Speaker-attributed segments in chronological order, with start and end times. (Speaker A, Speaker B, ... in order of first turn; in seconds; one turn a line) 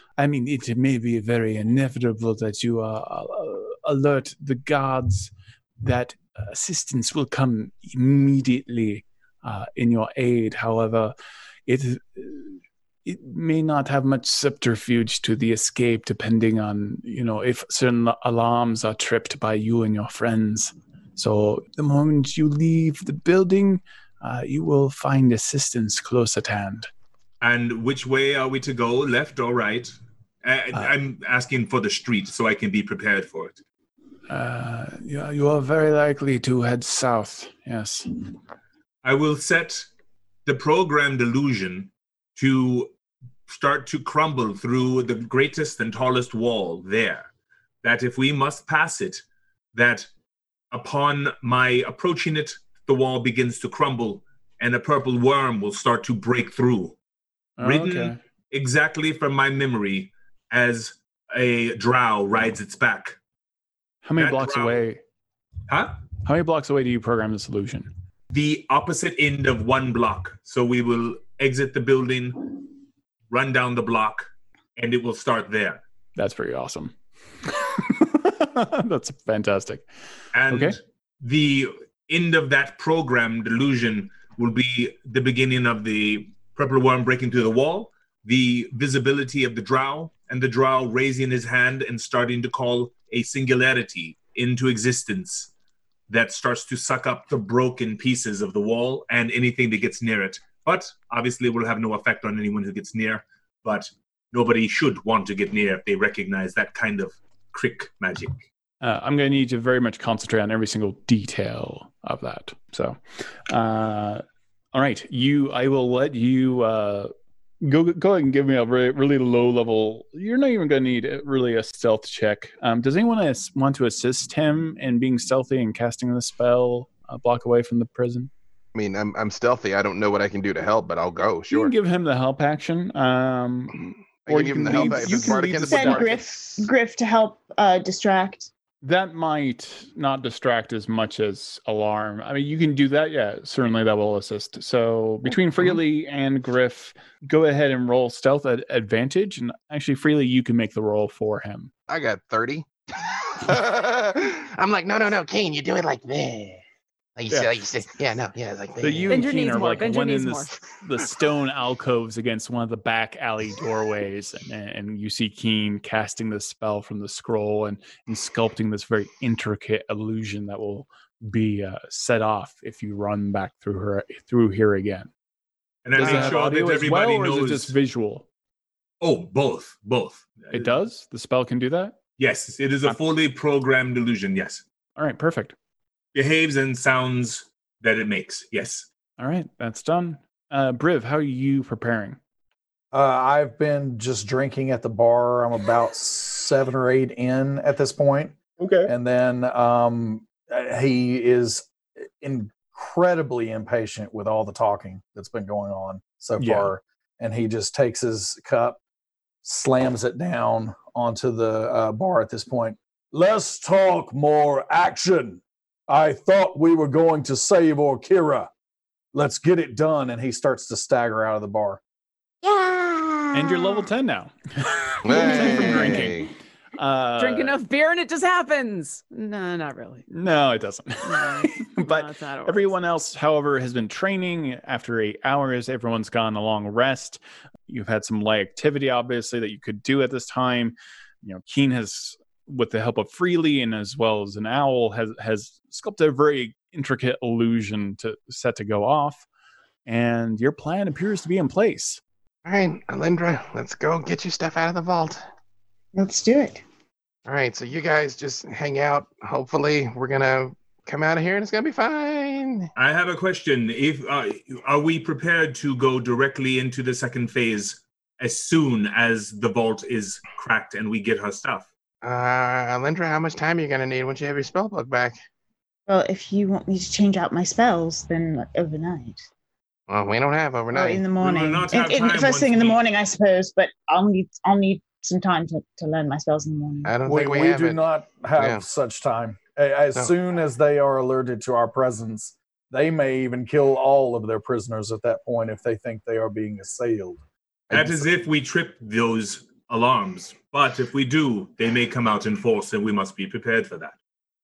Speaker A: 0.2-11.1
Speaker A: 11.7-26.9
Speaker B: 27.4-33.6
Speaker A: 34.3-38.1
Speaker B: 39.0-39.9
Speaker B: 40.5-42.9
Speaker B: 43.5-47.3
Speaker B: 47.8-49.2
Speaker B: 49.7-50.1
Speaker B: 50.7-57.0
Speaker A: 57.6-58.2
Speaker B: 57.6-63.2
Speaker A: 64.0-65.0
Speaker B: 64.2-64.8
Speaker B: 65.7-66.0
Speaker A: 66.2-67.9
Speaker B: 68.3-72.7
Speaker B: 73.3-75.8
Speaker A: 76.2-79.8
Speaker B: 80.3-95.5
Speaker A: 80.5-80.8
Speaker B: 96.1-108.4
Speaker A: 108.8-113.0
Speaker A: 113.5-128.3
Speaker C: 128.7-131.7
Speaker A: 131.5-136.1
Speaker C: 134.2-136.7
Speaker D: 134.8-138.5
Speaker A: 138.8-151.7
Speaker C: 151.9-156.6
Speaker C: 157.2-159.2
Speaker A: 158.8-175.1
Speaker E: 159.1-160.5
Speaker B: 175.8-177.7
Speaker A: 175.9-178.2
Speaker C: 176.1-176.3
Speaker B: 179.0-180.7
Speaker A: 180.5-182.0
Speaker B: 182.2-184.6
Speaker A: 184.9-185.6
Speaker B: 186.1-188.9
Speaker A: 189.2-192.2
Speaker F: 192.9-198.3
Speaker A: 198.6-198.9
Speaker F: 198.9-208.8
Speaker A: 206.4-206.7
Speaker F: 209.4-218.5
Speaker F: 219.1-221.8
Speaker G: 222.4-223.9
Speaker A: 223.3-226.2
Speaker C: 225.0-226.3
Speaker G: 225.4-225.8
Speaker A: 226.8-227.6
Speaker E: 227.2-230.1
Speaker A: 230.1-249.2
Speaker E: 231.0-232.7
Speaker A: 249.8-252.0
Speaker C: 252.4-255.2
Speaker D: 255.9-256.6
Speaker C: 257.2-262.7
Speaker B: 262.8-271.7
Speaker C: 272.0-275.2
Speaker D: 275.9-279.2
Speaker C: 279.9-281.1
Speaker D: 280.7-286.9
Speaker B: 281.2-282.8
Speaker C: 286.8-287.8
Speaker F: 287.0-297.2
Speaker C: 288.4-288.6
Speaker C: 297.7-298.1
Speaker B: 297.7-303.9